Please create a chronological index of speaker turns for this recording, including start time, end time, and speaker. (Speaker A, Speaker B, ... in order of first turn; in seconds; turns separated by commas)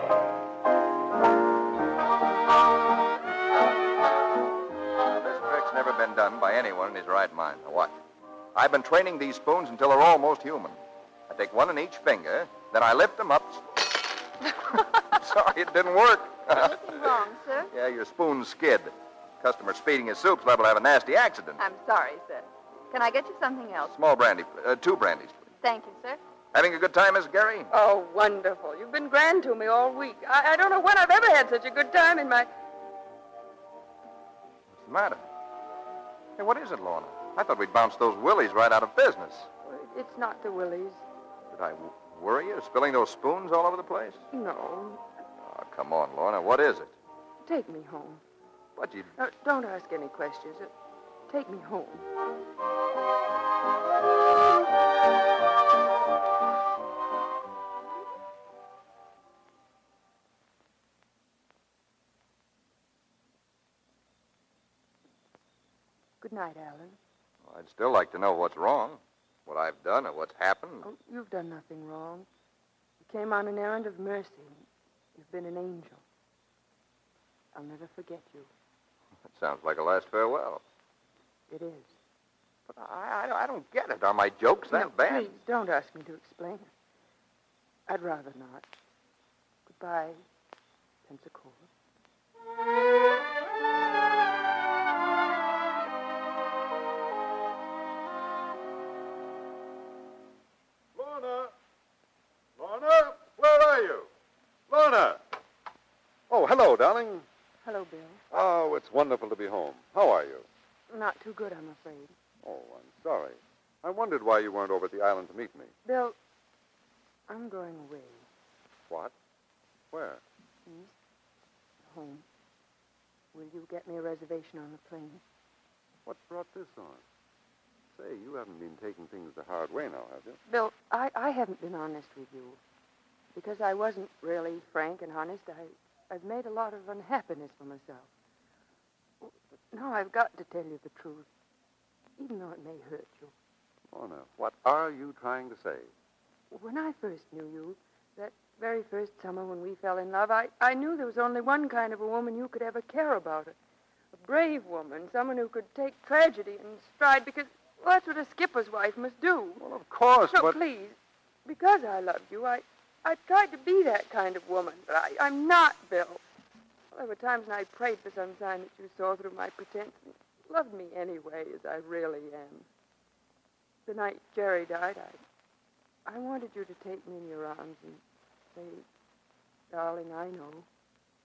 Speaker A: 5.0-8.0, Speaker A: 8.6-13.8, Speaker A: 14.7-17.0, Speaker B: 16.5-17.7, Speaker A: 17.7-21.6, Speaker B: 21.6-23.9, Speaker A: 23.9-25.5, Speaker B: 25.6-26.2, Speaker A: 26.5-27.7, Speaker C: 27.7-32.5, Speaker A: 34.8-35.2, Speaker A: 36.4-39.5, Speaker C: 39.6-41.0, Speaker A: 41.5-44.2, Speaker C: 44.3-45.0, Speaker A: 45.4-46.9, Speaker C: 47.5-48.2, Speaker A: 48.8-49.1, Speaker C: 49.2-50.7, Speaker C: 51.3-52.0, Speaker C: 66.2-67.0, Speaker A: 67.5-70.9, Speaker C: 70.8-72.3, Speaker C: 73.0-76.0, Speaker C: 77.5-78.5, Speaker A: 79.3-80.6, Speaker C: 81.5-81.9, Speaker A: 82.7-85.3, Speaker C: 84.7-86.7, Speaker C: 87.9-88.7, Speaker C: 89.7-90.2, Speaker C: 91.1-91.7, Speaker D: 101.0-101.5, Speaker D: 102.6-104.1, Speaker D: 104.7-105.2, Speaker D: 106.3-107.2, Speaker C: 107.6-108.2, Speaker D: 108.3-110.5, Speaker C: 110.9-112.1, Speaker D: 112.4-115.7, Speaker C: 115.8-116.2, Speaker C: 117.3-118.3, Speaker D: 119.9-120.2, Speaker C: 120.7-120.9, Speaker C: 121.8-122.2, Speaker C: 123.3-125.2, Speaker D: 126.1-127.0, Speaker D: 127.9-130.4, Speaker C: 130.5-132.6, Speaker C: 133.3-138.1, Speaker C: 139.2-141.3, Speaker C: 142.2-143.3, Speaker D: 143.9-145.9, Speaker C: 146.5-153.6, Speaker C: 154.1-159.6, Speaker D: 159.6-160.6, Speaker C: 160.3-166.2, Speaker C: 166.9-172.7, Speaker C: 173.9-175.2, Speaker C: 176.1-178.0, Speaker C: 178.5-178.8, Speaker C: 179.7-180.7